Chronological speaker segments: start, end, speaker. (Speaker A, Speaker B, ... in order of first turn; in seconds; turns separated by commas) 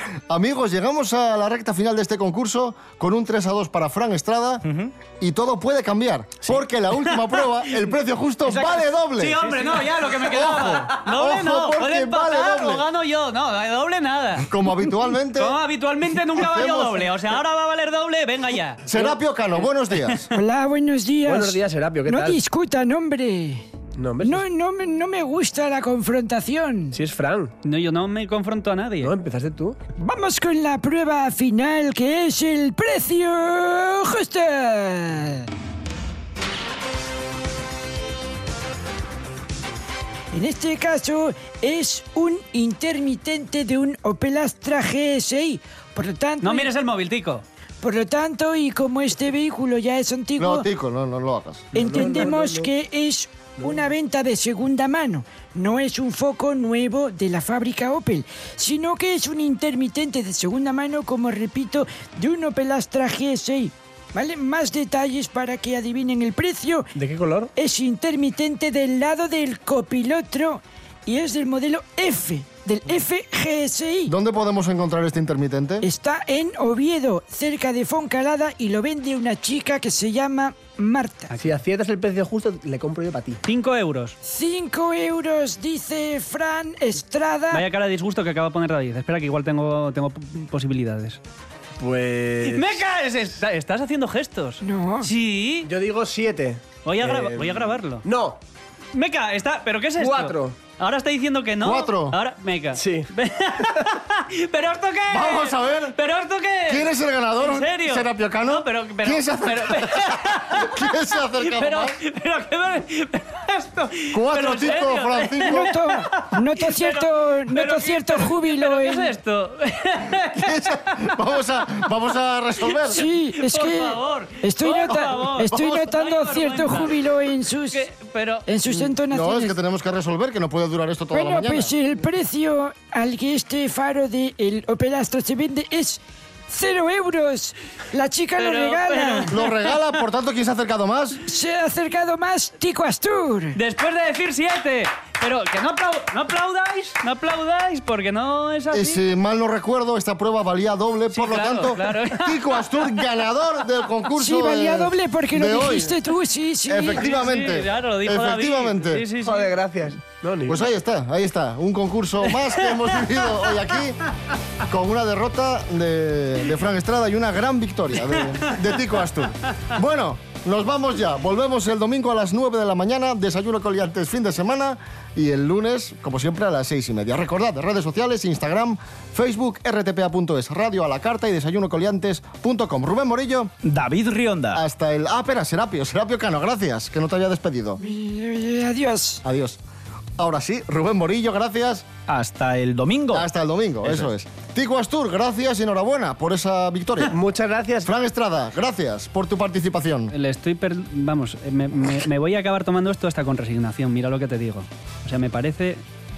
Speaker A: 0.3-4.6, Speaker B: 4.6-4.9, Speaker A: 5.2-9.4, Speaker C: 7.1-7.9, Speaker B: 8.4-10.0, Speaker C: 9.2-14.5, Speaker A: 10.2-12.8, Speaker A: 14.4-15.6, Speaker C: 15.2-19.1, Speaker A: 16.3-17.1, Speaker A: 18.9-20.3, Speaker D: 20.3-23.6, Speaker E: 21.2-22.4, Speaker E: 24.0-24.4, Speaker D: 24.2-27.0, Speaker E: 26.9-27.5, Speaker C: 27.6-29.1, Speaker E: 29.0-29.8, Speaker D: 30.0-35.5, Speaker D: 40.3-46.7, Speaker C: 46.4-47.4, Speaker D: 47.8-50.6, Speaker A: 50.4-51.7, Speaker E: 51.7-52.7, Speaker D: 51.7-66.9, Speaker E: 67.0-67.5, Speaker D: 67.5-74.1, Speaker A: 74.1-75.8, Speaker D: 75.8-81.3, Speaker E: 81.4-83.4, Speaker C: 83.4-84.2, Speaker D: 84.2-87.6, Speaker C: 87.5-91.2, Speaker E: 91.8-92.8, Speaker C: 92.4-95.7, Speaker D: 94.6-95.1, Speaker E: 95.6-98.4, Speaker C: 96.8-98.0, Speaker C: 98.9-121.0, Speaker E: 100.0-100.6, Speaker A: 101.6-102.2, Speaker E: 102.7-103.1, Speaker A: 105.1-106.0, Speaker A: 106.7-112.0, Speaker A: 114.1-115.7, Speaker D: 115.5-119.2, Speaker A: 120.3-123.0, Speaker C: 122.6-127.0, Speaker D: 122.9-127.8, Speaker C: 127.7-128.5, Speaker D: 128.4-129.5, Speaker A: 128.7-131.7, Speaker D: 131.1-139.4, Speaker C: 138.4-139.7, Speaker A: 139.3-141.2, Speaker D: 141.2-143.6, Speaker C: 143.5-149.0, Speaker A: 148.7-156.0, Speaker C: 151.1-152.9, Speaker D: 154.1-157.1, Speaker A: 156.7-159.0, Speaker C: 156.9-159.5, Speaker E: 159.2-160.6, Speaker A: 160.5-164.0, Speaker C: 162.4-163.4, Speaker A: 164.6-183.5, Speaker B: 183.6-184.6, Speaker A: 184.5-187.8, Speaker D: 187.8-189.2, Speaker A: 189.2-189.6, Speaker A: 190.2-191.8, Speaker B: 192.1-193.3, Speaker A: 193.1-197.1, Speaker B: 193.8-194.1, Speaker E: 197.1-197.9, Speaker A: 197.8-200.1, Speaker C: 200.1-205.8